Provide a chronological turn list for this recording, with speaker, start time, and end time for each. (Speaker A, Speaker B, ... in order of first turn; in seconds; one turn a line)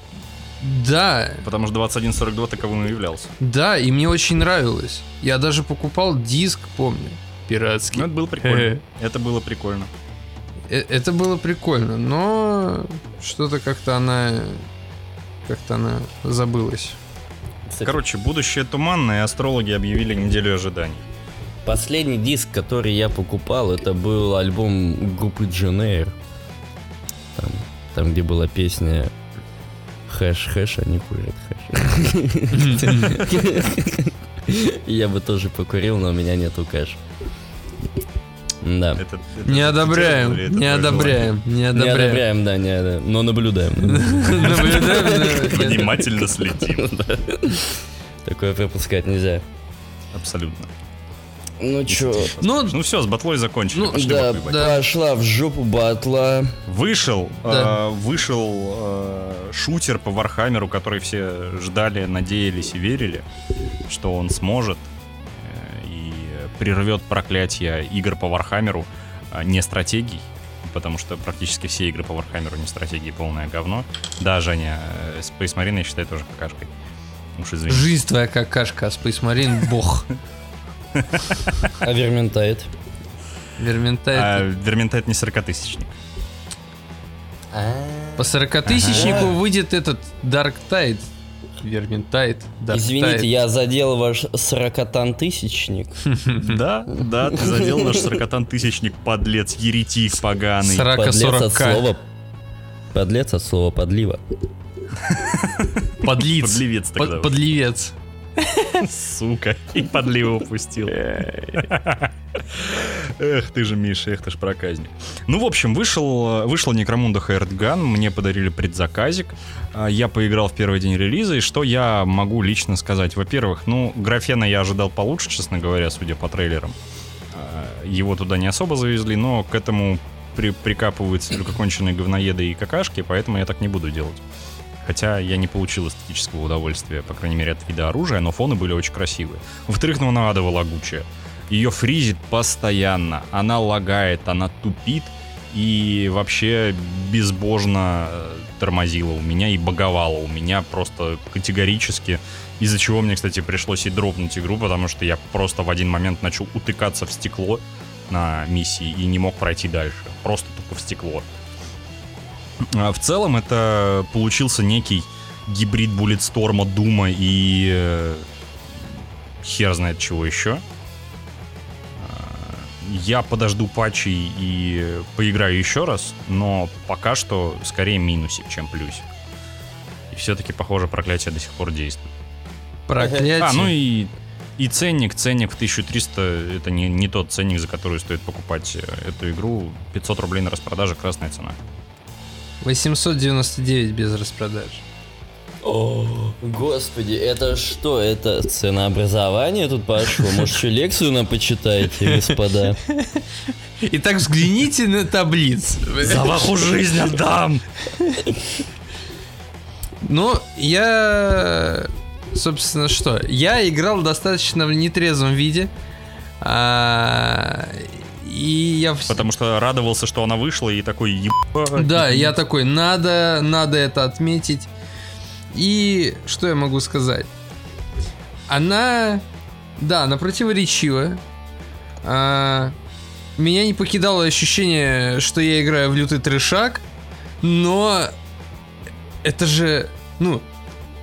Speaker A: 0.6-1.4
Speaker B: 1.4-3.3
Speaker A: 3.4-8.8
Speaker B: 7.9-9.9
Speaker A: 10.7-14.7
Speaker A: 15.4-17.0
Speaker C: 17.6-18.0
Speaker B: 17.8-21.0
Speaker C: 21.6-26.1
Speaker C: 27.3-29.1
Speaker C: 30.1-37.0
Speaker A: 32.5-33.2
Speaker C: 38.6-39.0
Speaker B: 39.0-41.3
Speaker A: 39.4-42.2
Speaker C: 41.7-45.6
Speaker A: 43.8-46.0
Speaker B: 44.5-46.9
Speaker C: 46.6-49.4
Speaker B: 50.1-50.7
Speaker C: 51.6-52.3
Speaker B: 51.9-54.7
Speaker A: 52.4-52.8
Speaker C: 53.8-56.5
Speaker A: 54.4-54.8
Speaker B: 56.7-63.2
Speaker A: 57.5-57.8
Speaker B: 63.9-76.7
Speaker B: 77.3-77.9
Speaker A: 77.7-80.1
Speaker B: 80.9-81.6
Speaker C: 81.8-82.7
Speaker A: 83.6-84.4
Speaker B: 84.1-85.9
Speaker C: 87.5-88.3
Speaker A: 88.2-91.1
Speaker B: 88.6-89.3
Speaker C: 88.9-89.3
Speaker A: 91.6-93.3
Speaker C: 92.7-96.0
Speaker A: 96.1-96.6
Speaker B: 96.4-100.9
Speaker C: 97.2-98.1
Speaker A: 100.6-101.8
Speaker C: 100.9-102.0
Speaker C: 102.9-104.2
Speaker B: 105.0-107.3
Speaker A: 106.0-108.8
Speaker B: 108.8-126.8
Speaker A: 111.1-111.5
Speaker B: 127.3-134.2
Speaker B: 134.8-161.2
Speaker B: 162.6-168.3
Speaker B: 169.4-170.6
Speaker B: 172.0-179.1
Speaker B: 180.1-182.1
Speaker A: 182.9-183.7
Speaker B: 183.4-191.6
Speaker A: 192.6-194.8
Speaker C: 195.6-202.8
Speaker A: 202.1-202.3
Speaker A: 202.9-203.2
Speaker A: 203.8-206.3
Speaker B: 206.0-207.6
Speaker A: 207.9-208.2
Speaker A: 210.0-215.7
Speaker A: 216.4-219.3
Speaker B: 219.1-222.3
Speaker A: 221.7-224.7
Speaker A: 225.5-227.3
Speaker A: 228.5-229.2
Speaker A: 229.8-231.2
Speaker A: 232.0-232.7
Speaker A: 233.4-236.8
Speaker A: 237.4-238.1
Speaker A: 239.2-240.4